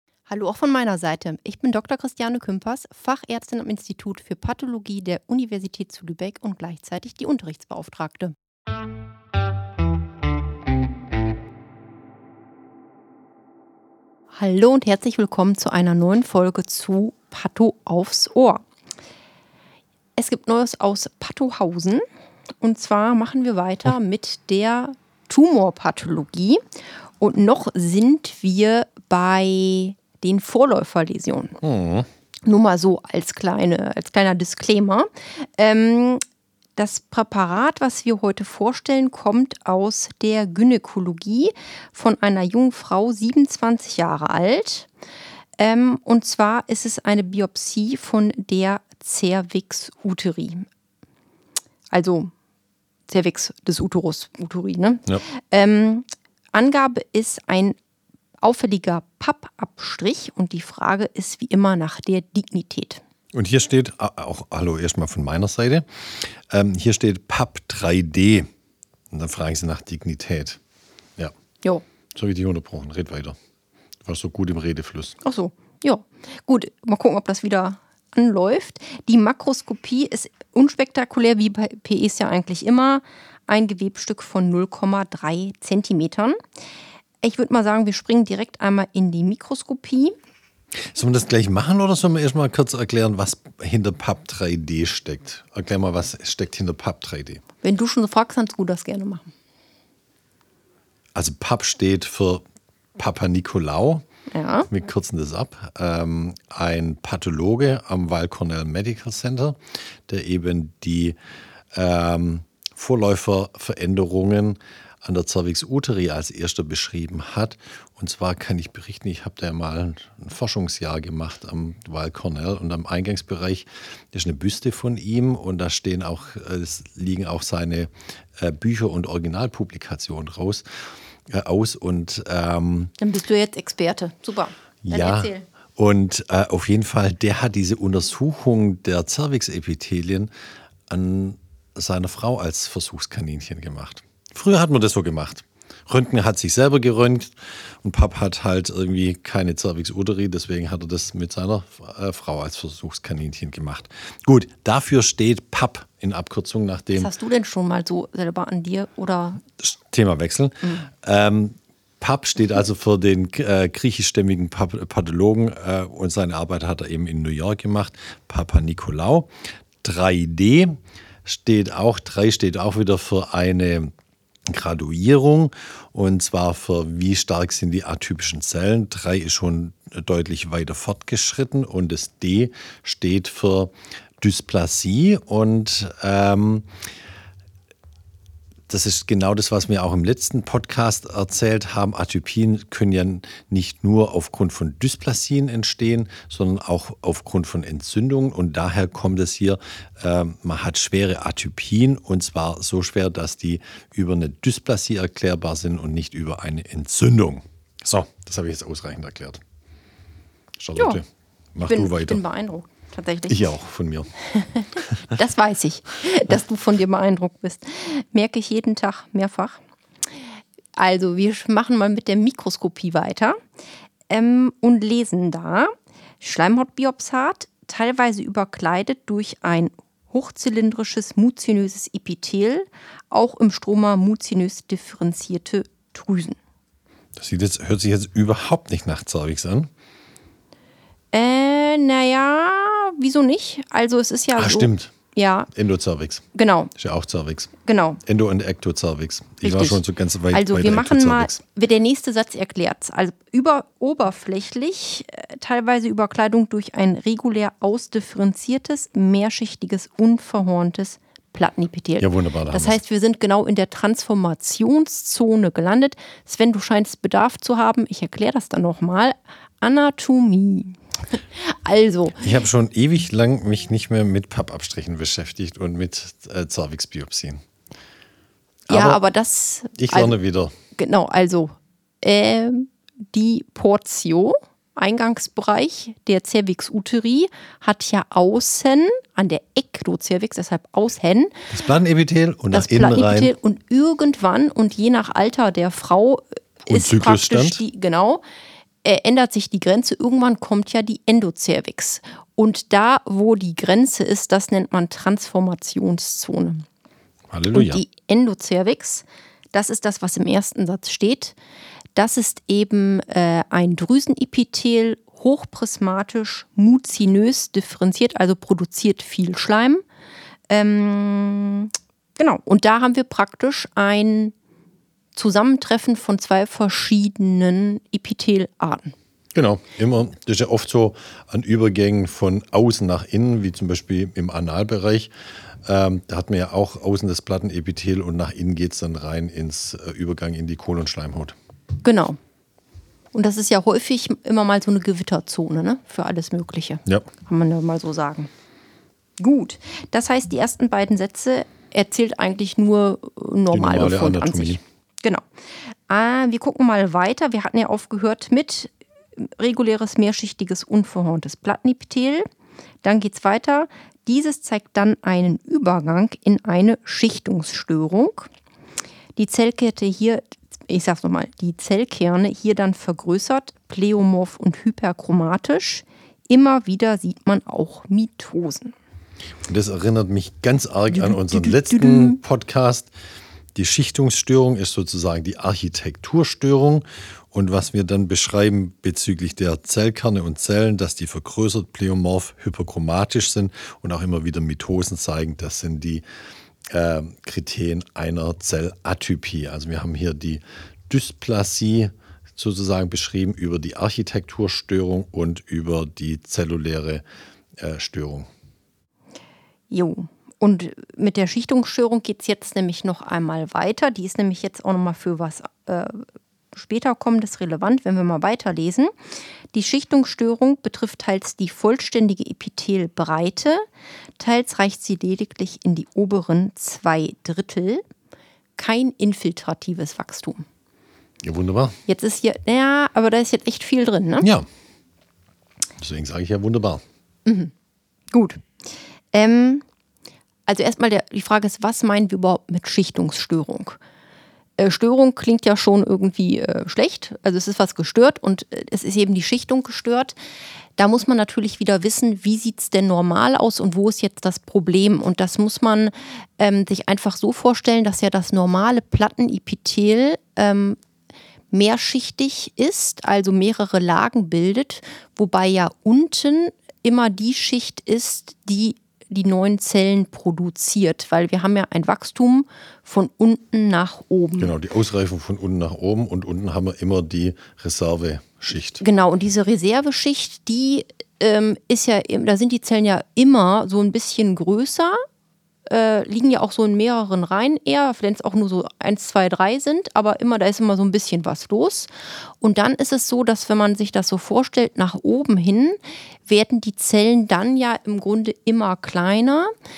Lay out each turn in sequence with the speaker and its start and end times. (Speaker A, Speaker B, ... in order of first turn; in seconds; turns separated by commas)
Speaker A: 0.3-8.3, Speaker A: 14.3-18.6, Speaker A: 20.2-22.0, Speaker A: 22.6-26.6, Speaker A: 27.2-31.6, Speaker B: 31.6-32.1, Speaker A: 32.5-36.2, Speaker A: 36.8-44.9, Speaker A: 45.6-50.7, Speaker A: 51.9-52.3, Speaker A: 53.1-57.8, Speaker A: 58.4-63.0, Speaker B: 63.3-68.5, Speaker B: 69.1-70.6, Speaker B: 72.1-73.4, Speaker B: 74.0-75.2, Speaker A: 75.2-86.4, Speaker A: 87.2-90.1, Speaker B: 90.9-97.4, Speaker A: 97.6-99.3, Speaker B: 101.1-102.4, Speaker B: 103.0-104.0, Speaker A: 104.3-104.7, Speaker B: 104.7-111.2, Speaker B: 111.7-130.7, Speaker B: 131.3-132.9, Speaker A: 133.0-135.5, Speaker B: 134.8-140.3, Speaker B: 140.9-157.1, Speaker A: 157.0-159.4, Speaker B: 159.6-169.3, Speaker B: 169.8-173.9, Speaker B: 174.5-186.7, Speaker B: 188.7-209.4, Speaker B: 210.6-212.2, Speaker A: 210.8-211.0, Speaker A: 211.6-213.5, Speaker B: 213.3-214.1, Speaker A: 214.3-219.6, Speaker A: 220.8-223.4, Speaker A: 224.1-236.4, Speaker B: 237.2-239.7, Speaker A: 241.1-245.5, Speaker B: 244.3-244.9, Speaker B: 245.5-246.2, Speaker A: 246.3-246.7, Speaker B: 246.8-247.5, Speaker A: 247.6-248.0, Speaker B: 248.0-251.4, Speaker A: 249.4-272.3, Speaker B: 262.0-262.8, Speaker B: 272.2-277.4, Speaker B: 278.7-279.0, Speaker A: 278.7-280.1, Speaker B: 279.8-280.5, Speaker A: 280.8-291.4, Speaker B: 291.5-293.3, Speaker A: 292.5-298.2, Speaker B: 296.7-297.6, Speaker A: 298.8-306.6, Speaker B: 307.3-307.8, Speaker A: 307.5-311.4, Speaker A: 312.0-319.8, Speaker A: 320.5-324.3, Speaker A: 325.1-328.9, Speaker B: 329.4-335.1, Speaker B: 335.6-341.4, Speaker A: 341.8-342.2, Speaker A: 343.1-348.3, Speaker A: 349.2-355.2, Speaker B: 353.5-354.6, Speaker A: 355.9-362.2, Speaker A: 362.8-368.3, Speaker A: 369.1-378.8, Speaker B: 379.5-382.9, Speaker A: 380.9-382.2, Speaker B: 383.5-396.0, Speaker B: 396.7-407.0, Speaker B: 407.6-408.3, Speaker A: 409.7-418.9, Speaker A: 419.5-423.6, Speaker A: 424.2-427.8, Speaker A: 428.6-430.5, Speaker B: 431.2-431.8, Speaker A: 431.9-434.2, Speaker B: 434.2-434.5, Speaker B: 435.8-436.8, Speaker A: 437.2-437.5, Speaker A: 438.1-438.4, Speaker A: 439.1-439.6, Speaker A: 440.5-443.8, Speaker A: 444.6-450.1, Speaker A: 450.8-460.8, Speaker A: 461.5-474.5, Speaker B: 474.4-478.8, Speaker A: 478.8-485.0, Speaker A: 485.6-491.9, Speaker A: 492.4-499.5